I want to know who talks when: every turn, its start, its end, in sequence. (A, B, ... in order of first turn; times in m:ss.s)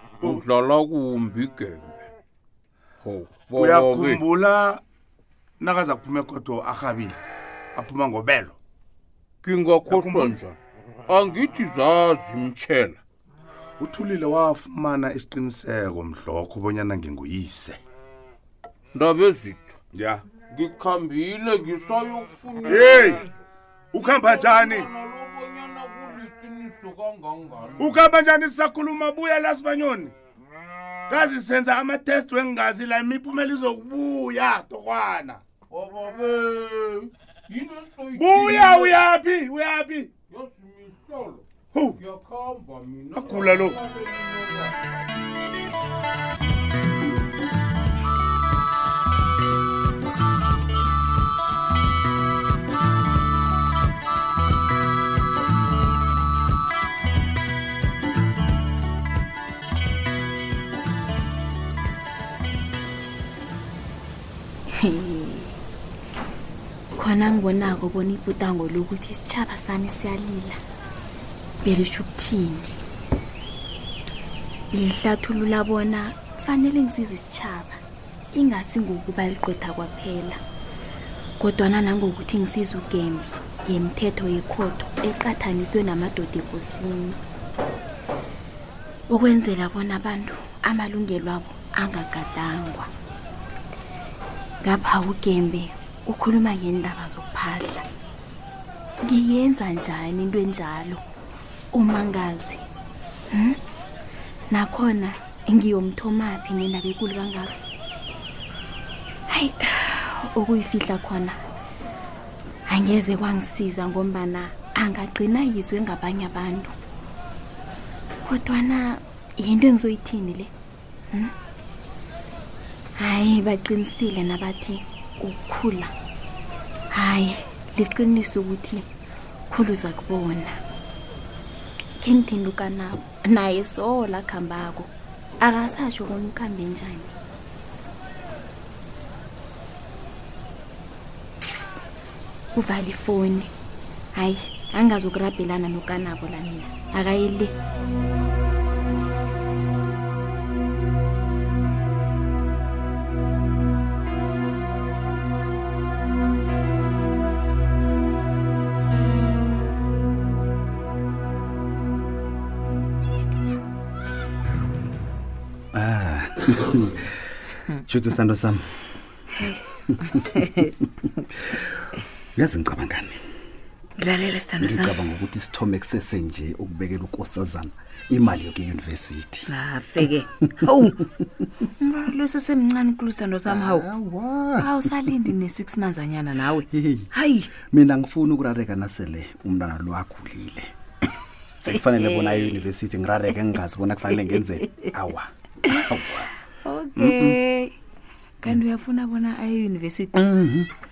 0:00.2-0:02.0 A
0:03.0-0:04.2 A
0:03.6-0:04.8 B
0:05.6-0:07.2 B
0:07.8-0:08.6 B
0:09.4-0:10.6 A
0:09.9-0:10.3 B
0:11.1-0:13.0 A
0:13.8-0:17.8 B
0:18.9-0:19.7 A
0:19.9-0:20.2 B
0:20.5-0:23.4 A
0:22.7-0:23.2 B
0:23.9-0:24.9 B
0:24.0-0:28.0 A
0:27.8-0:30.1 B
0:31.1-0:35.4 B
0:35.7-0:39.0 A
0:38.1-0:40.1 B
0:40.3-0:41.4 A
0:41.7-0:42.0 B
0:42.0-0:44.8 A
0:43.1-0:43.8 B
1:04.8-1:05.6 C
1:07.0-1:10.6 C
1:11.6-1:12.8 C
1:14.7-1:17.8 C
1:18.3-1:20.4 C
1:21.4-1:27.2 C
1:29.1-1:32.9 C
1:34.6-1:37.8 C
1:39.0-1:41.0 C
1:41.7-1:42.6 C
1:43.3-1:43.6 C
1:44.5-1:47.6 C
1:49.3-1:51.4 C
1:52.7-1:56.7 C
1:58.3-2:00.5 C
2:03.0-2:05.9 C
2:07.0-2:08.8 C
2:09.5-2:10.6 C
2:12.0-2:14.9 C
2:15.4-2:17.1 C
2:22.5-2:23.5 C
2:24.2-2:27.5 C
2:45.7-2:47.2 D
2:47.8-2:49.0 D
2:50.1-2:50.7 E
2:52.4-2:53.2 D
2:54.0-2:54.9 E
2:54.6-2:59.5 D
2:59.5-3:01.0 E
3:01.8-3:03.9 E
3:03.5-3:05.1 D
3:04.6-3:07.5 E
3:06.7-3:07.1 D
3:07.6-3:10.7 D
3:11.6-3:16.3 D
3:12.1-3:12.6 E
3:16.6-3:17.7 E
3:17.0-3:17.4 D
3:18.4-3:20.2 E
3:20.2-3:20.7 D